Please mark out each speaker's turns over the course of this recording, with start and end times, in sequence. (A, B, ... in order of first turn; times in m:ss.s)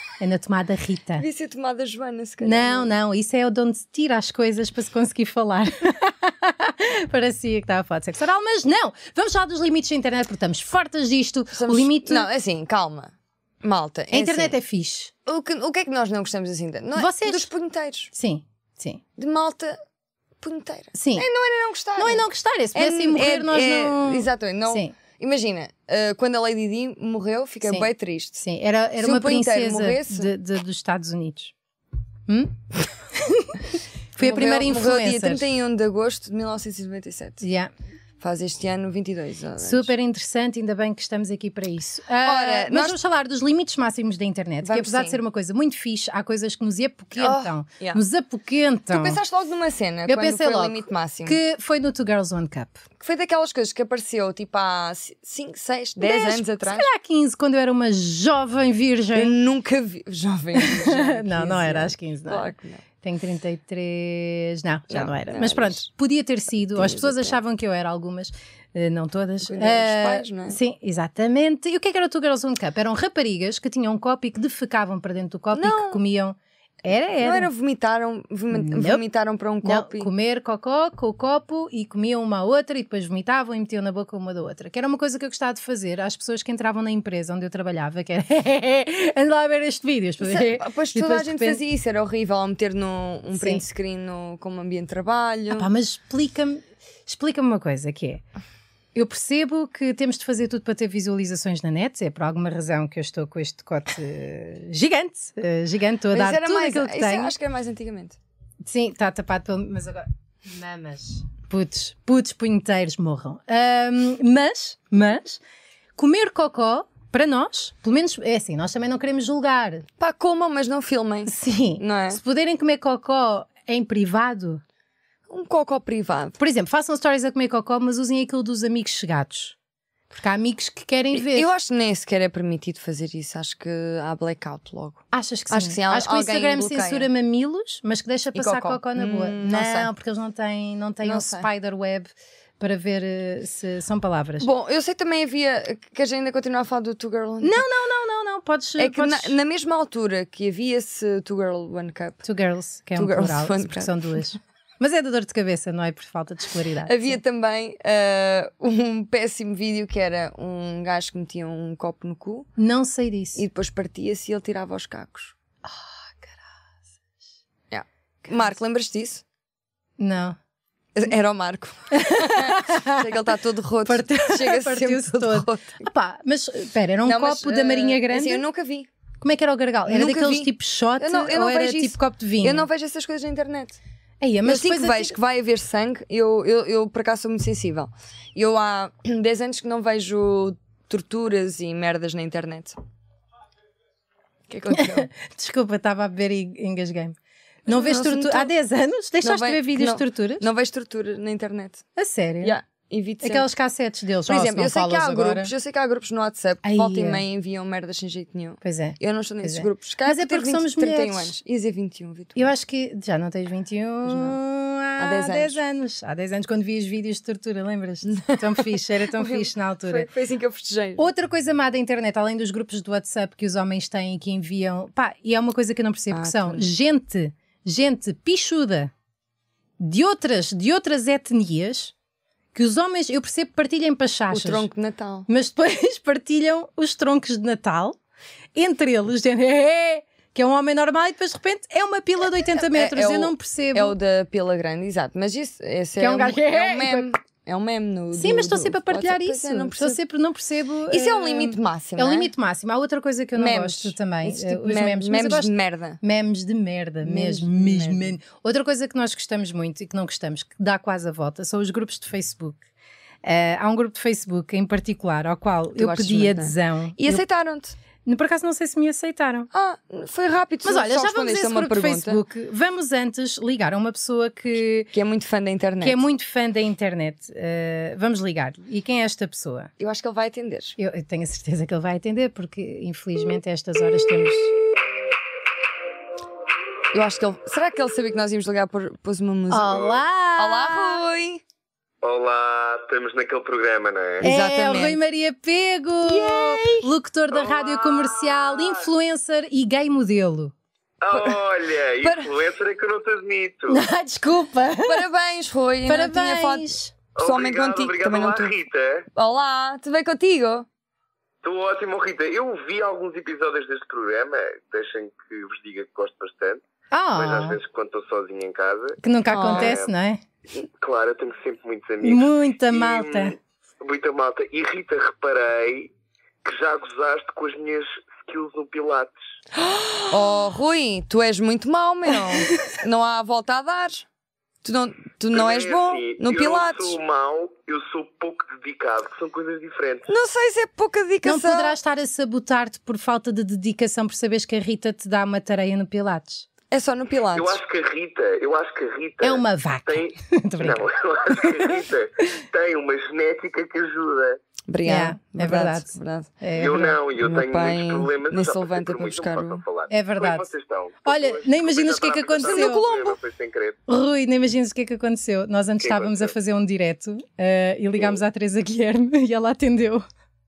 0:00.2-0:01.2 A
0:01.2-0:02.9 B
0:02.4-0:12.3 A
0:11.5-0:14.6 B
0:14.1-0:15.1 A
0:15.3-0:18.1 B
0:17.0-0:17.5 A
0:18.1-0:19.0 A
0:19.2-0:19.8 B
0:20.4-0:28.4 B
0:20.9-0:21.3 A
0:22.0-0:24.9 A
0:28.4-0:31.5 A
0:29.0-0:30.3 B
0:32.3-0:35.4 A
0:34.2-0:37.4 B
0:37.4-0:37.7 A
0:38.2-0:39.9 B
0:39.6-0:49.2 A
0:42.2-0:43.0 B
0:44.6-0:45.2 B
0:47.2-0:48.0 B
0:48.9-0:51.4 B
0:50.1-0:52.8 A
0:53.0-0:56.9 B
0:56.0-0:59.4 A
0:59.2-1:02.8 B
1:00.6-1:17.5 A
1:04.9-1:05.8 B
1:06.8-1:07.4 B
1:09.4-1:10.6 B
1:15.5-1:16.0 B
1:17.2-1:20.1 B
1:18.5-1:19.0 A
1:19.6-1:31.6 A
1:30.2-1:35.7 B
1:33.3-1:33.6 A
1:35.5-1:38.2 A
1:39.0-1:47.3 A
1:46.1-1:48.2 B
1:48.6-1:55.4 A
1:56.0-1:59.9 A
2:00.0-2:02.2 B
2:01.3-2:04.6 A
2:05.3-2:06.4 B
2:06.4-2:09.6 A
2:10.1-2:11.5 A
2:11.1-2:17.1 B
2:15.1-2:24.5 A
2:18.3-2:19.9 B
2:21.0-2:21.5 B
2:24.4-2:27.6 B
2:27.4-2:29.4 A
2:28.8-2:32.2 B
2:32.2-2:37.2 A
2:33.0-2:34.2 B
2:36.8-2:42.5 B
2:42.6-2:43.4 A
2:43.4-2:45.3 B
2:45.6-2:46.3 A
2:47.7-2:49.2 B
2:50.0-2:50.4 A
2:51.0-2:55.8 B
2:51.9-2:53.1 A
2:53.8-2:58.4 A
2:57.0-2:58.9 B
2:59.2-3:02.7 A
2:59.9-3:03.8 B
3:04.2-3:05.2 A
3:04.4-3:12.8 B
3:14.5-3:15.1 B
3:14.7-3:17.2 A
3:17.7-3:20.5 A
3:17.7-3:18.5 B
3:19.2-3:21.8 B
3:22.0-3:22.6 A
3:22.4-3:23.5 B
3:23.2-3:25.5 A
3:24.3-3:32.5 B
3:26.6-3:27.2 A
3:28.6-3:31.3 A
3:32.4-3:40.1 A
3:34.1-3:34.4 B
3:35.0-3:35.6 B
3:38.1-3:41.1 B
3:41.0-3:48.9 A
3:46.1-3:46.7 B
3:49.8-3:51.9 A
3:52.6-3:54.7 A
3:54.3-3:55.3 B
3:55.3-3:58.0 A
3:58.6-4:04.0 A
4:02.6-4:10.0 B
4:06.0-4:07.1 A
4:08.2-4:22.6 A
4:10.9-4:12.3 B
4:13.4-4:16.0 B
4:17.0-4:18.1 B
4:23.2-4:27.2 A
4:25.8-4:27.8 B
4:28.0-4:29.5 A
4:29.5-4:32.2 B
4:30.6-4:34.9 A
4:34.9-4:36.0 B
4:35.8-4:39.7 A
4:39.8-4:40.8 B
4:40.8-4:44.6 A
4:46.9-4:51.4 B
4:49.5-4:51.0 A
4:52.0-4:54.2 C
4:54.2-4:55.0 B
4:54.2-5:00.5 A
4:56.1-4:56.9 B
4:57.3-4:58.9 C
5:01.0-5:03.9 C
5:01.1-5:01.4 B
5:02.0-5:02.3 B
5:03.7-5:05.1 A
5:04.9-5:08.5 B
5:05.9-5:06.9 A
5:07.2-5:09.1 C
5:09.2-5:10.7 B
5:11.4-5:16.6 C
5:16.9-5:17.6 A
5:17.1-5:19.9 C
5:19.0-5:20.2 A
5:19.3-5:19.8 B
5:20.5-5:25.9 C
5:22.0-5:23.4 A
5:26.4-5:29.1 C
5:29.6-5:34.1 B
5:34.6-5:37.0 B
5:35.3-5:40.1 C
5:40.1-5:41.8 B
5:41.2-5:46.5 A
5:46.7-5:47.6 B
5:47.3-5:54.4 C
5:49.2-5:52.4 A
5:54.7-5:56.3 B
5:54.8-5:57.0 A
5:56.6-6:03.8 C
5:57.2-5:59.6 B
5:59.9-6:00.5 A
6:01.1-6:02.8 A
6:02.4-6:03.2 B
6:03.9-6:10.0 A
6:05.8-6:06.3 C